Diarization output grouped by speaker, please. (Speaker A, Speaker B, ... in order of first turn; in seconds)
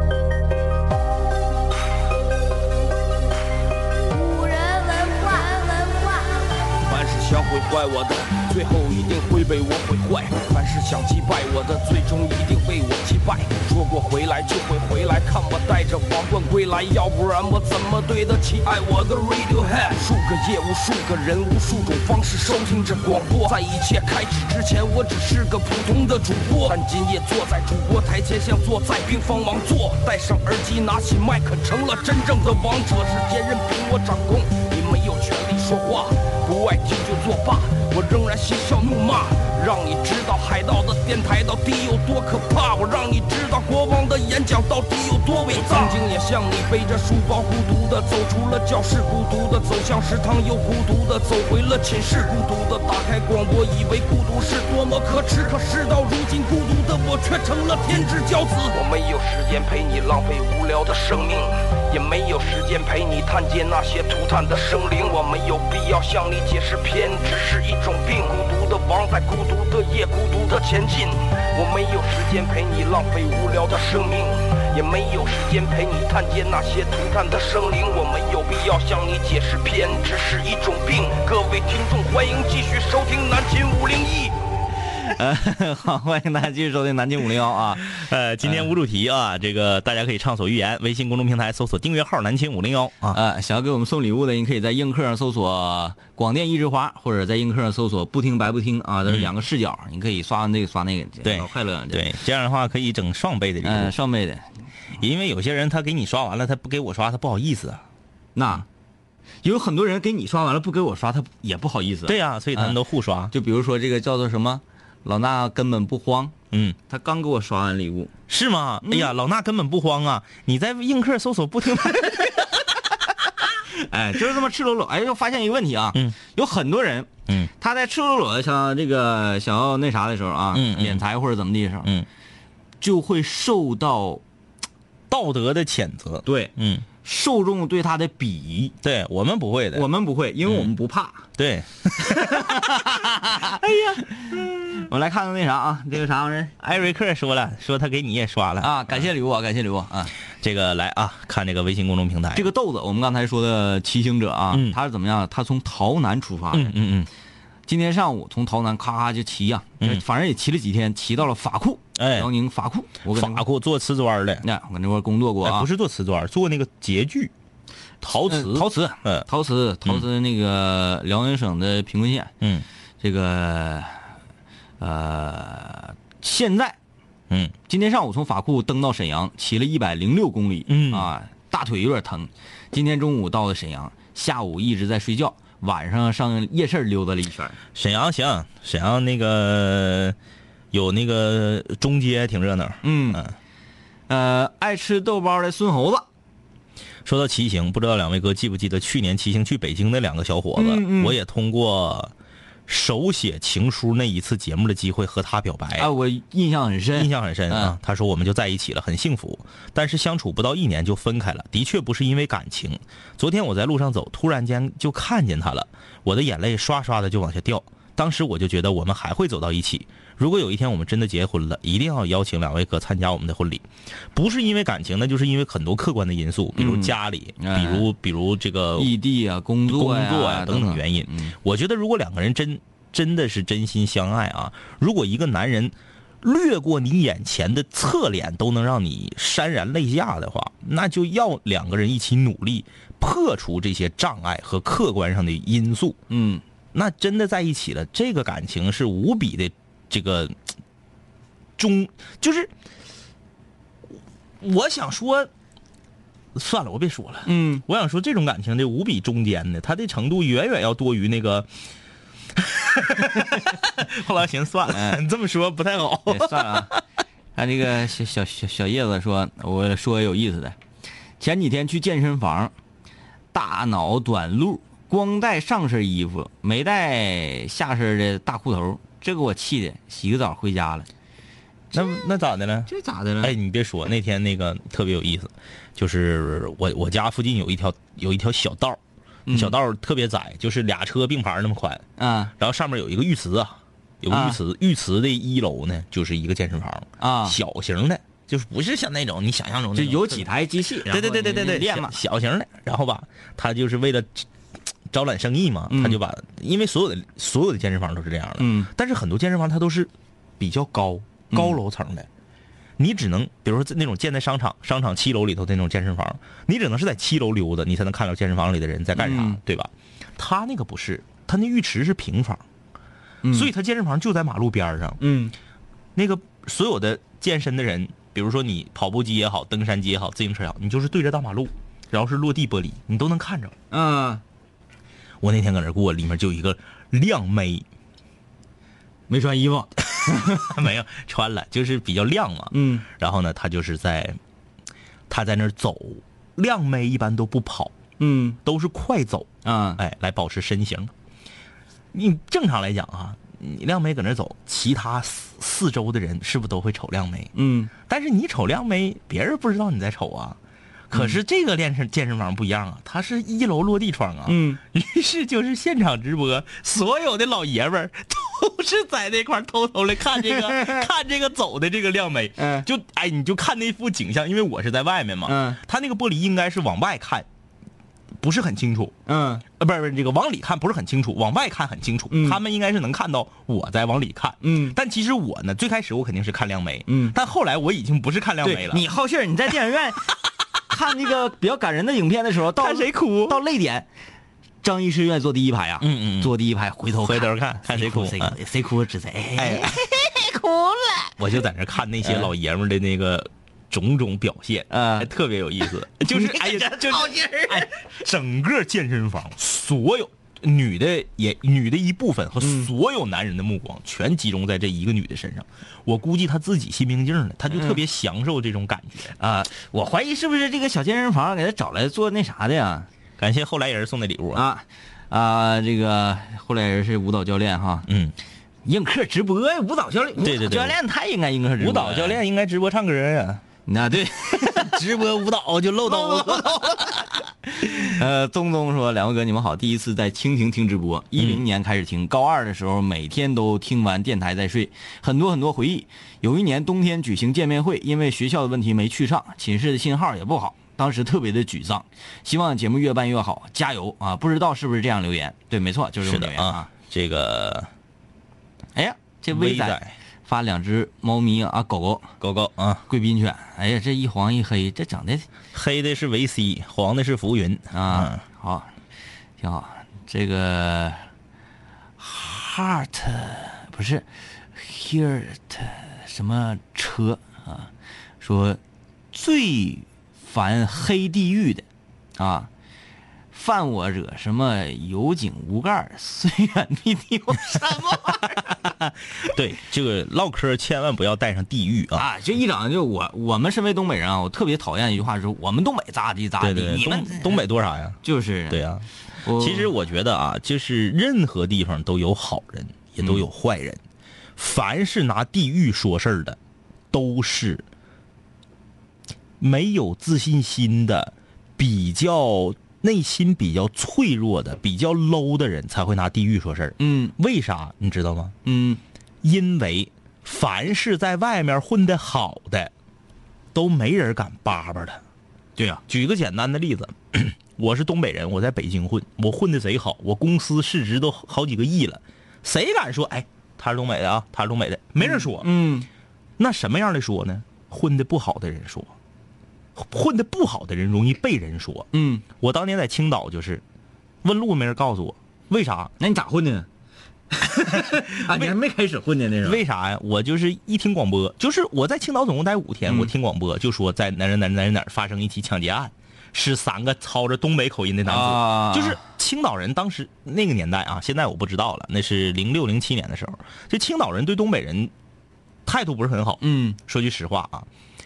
Speaker A: 4.1-6.4
Speaker B: 6.7-84.4
Speaker C: 85.0-87.9, 88.4-88.7, 93.1-102.1, 103.6-104.5, 108.4-108.7, 109.4-112.8, 113.3-116.3, 116.9-118.1, 118.8-119.1, 123.7-131.9, 132.8-134.2, 136.3-138.7, 139.7-141.2, 142.0-146.6, 148.6-150.1, 152.3-156.8, 157.7-163.4, 164.4-165.7, 168.2-172.3, 173.0-174.0, 174.8-176.8, 177.7-187.6, 192.8-193.2, 194.1-196.1, 200.6-201.2, 205.8-207.8, 226.6-227.9, 228.8-231.3, 246.1-246.4, 257.3-257.6, 264.7-265.0, 266.1-266.7, 267.4-270.6, 271.2-272.5, 273.3-280.9, 281.8-282.0, 282.7-283.4, 289.3-289.6, 292.0-292.3, 294.1-294.4, 297.0-297.4, 299.8-302.0, 305.7-306.0, 308.4-308.7, 311.3-311.6, 319.0-319.4, 323.2-323.5, 325.0-325.3, 333.7-334.2, 339.1-340.6, 342.5-342.9, 348.0-348.4, 349.4-349.8, 357.4-357.7, 360.9-361.2, 364.3-364.6, 370.2-370.9, 372.4-372.7, 375.3-375.6, 379.1-379.4, 382.1-382.4, 384.4-384.8, 386.9-387.2, 388.4-390.2, 390.7-393.9, 394.6-401.2, 402.0-402.3, 404.7-405.1, 405.9-407.8, 412.4-412.7, 417.5-417.8, 419.2-422.9, 424.3-427.9, 428.6-432.2, 433.7-434.8, 435.8-456.7, 458.8-462.2, 462.9-465.3, 467.7-468.7, 469.4-471.1, 472.0-478.6, 479.1-481.6, 482.2-482.5, 483.3-488.7, 491.9-497.4, 498.0-498.7, 499.2-499.7, 516.8-517.1, 518.5-518.8, 525.6-525.8, 535.0-535.9, 541.9-542.2, 546.0-546.7, 547.3-549.6, 558.1-559.0, 566.4-566.8
Speaker D: 87.8-93.2, 101.2-103.9, 105.0-107.8, 112.1-113.3, 116.5-116.8, 118.3-122.6, 130.5-131.0, 135.1-136.8, 138.8-139.9, 141.4-144.5, 146.6-149.1, 150.4-152.5, 154.5-154.8, 156.5-157.1, 162.0-162.3, 163.1-164.4, 165.4-167.3, 168.0-169.3, 180.7-181.1, 187.8-190.2, 190.7-193.3, 197.1-202.1, 202.7-205.9, 206.9-228.9, 229.7-246.0, 246.7-250.4, 251.6-252.5, 254.4-255.3, 256.4-261.5, 262.4-266.8, 281.7-282.7, 283.2-291.8, 292.4-300.3, 300.9-304.3, 304.9-312.1, 312.8-322.4, 323.3-325.0, 325.9-333.6, 335.2-337.6, 340.3-344.2, 345.1-347.7, 348.4-350.9, 351.9-360.4, 360.9-377.3, 378.2-378.9, 379.6-388.9, 392.5-393.4, 395.8-396.3, 397.0-398.4, 399.4-399.8, 401.2-419.1, 423.2-424.4, 427.9-428.1, 430.2-430.8, 431.6-433.4, 434.4-437.1, 441.2-441.4, 456.0-457.7, 459.3-459.9, 462.2-462.8, 465.5-468.2, 488.7-492.1, 496.4-503.8, 504.4-506.4, 506.9-507.6, 509.4-518.3, 519.2-522.7, 523.5-525.0, 525.9-535.5, 536.4-538.9, 539.8-543.6, 544.2-545.9, 548.3-548.6, 549.4-564.9, 565.7-567.7